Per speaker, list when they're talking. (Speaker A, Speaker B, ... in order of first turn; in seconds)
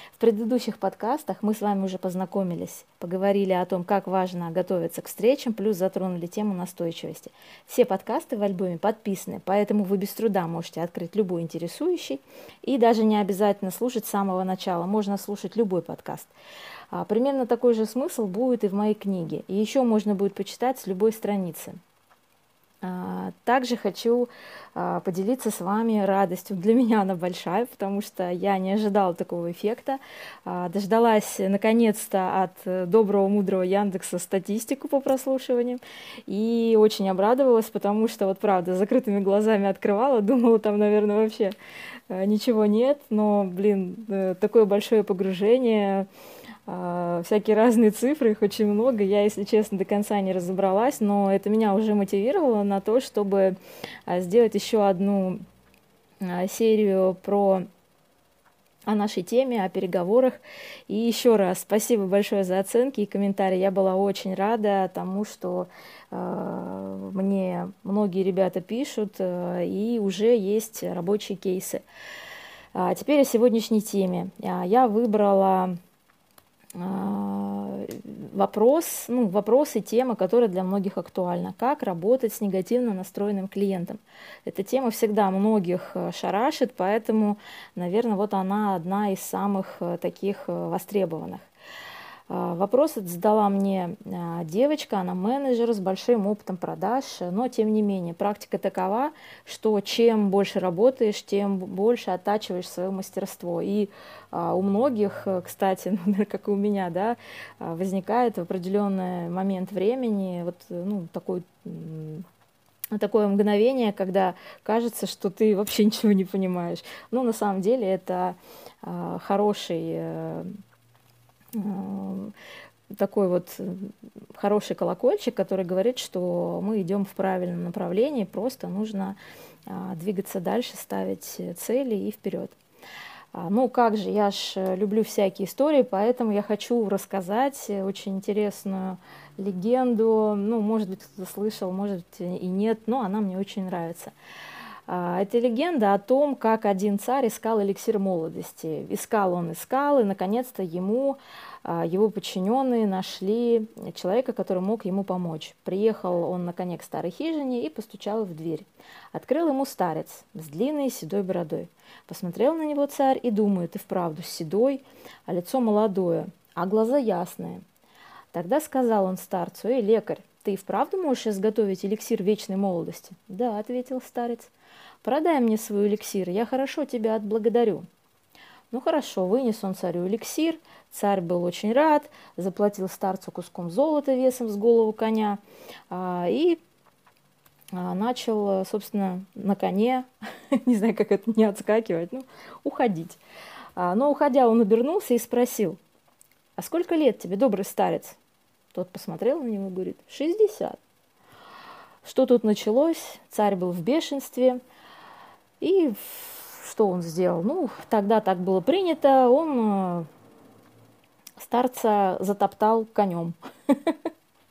Speaker A: 0.2-16.3, 16.9-21.8, 22.8-41.5, 42.1-46.1, 46.7-53.5, 54.1-55.4, 56.2-57.7, 58.9-71.8, 72.7-75.8, 76.7-91.5, 92.3-112.2, 112.9-120.5, 121.5-122.3, 122.9-132.6, 133.3-144.1, 144.9-167.6, 168.3-174.5, 175.0-177.9, 178.7-186.6, 187.7-193.2, 193.8-195.8, 196.6-198.2, 198.7-200.8, 202.0-204.6, 205.6-210.1, 211.4-214.0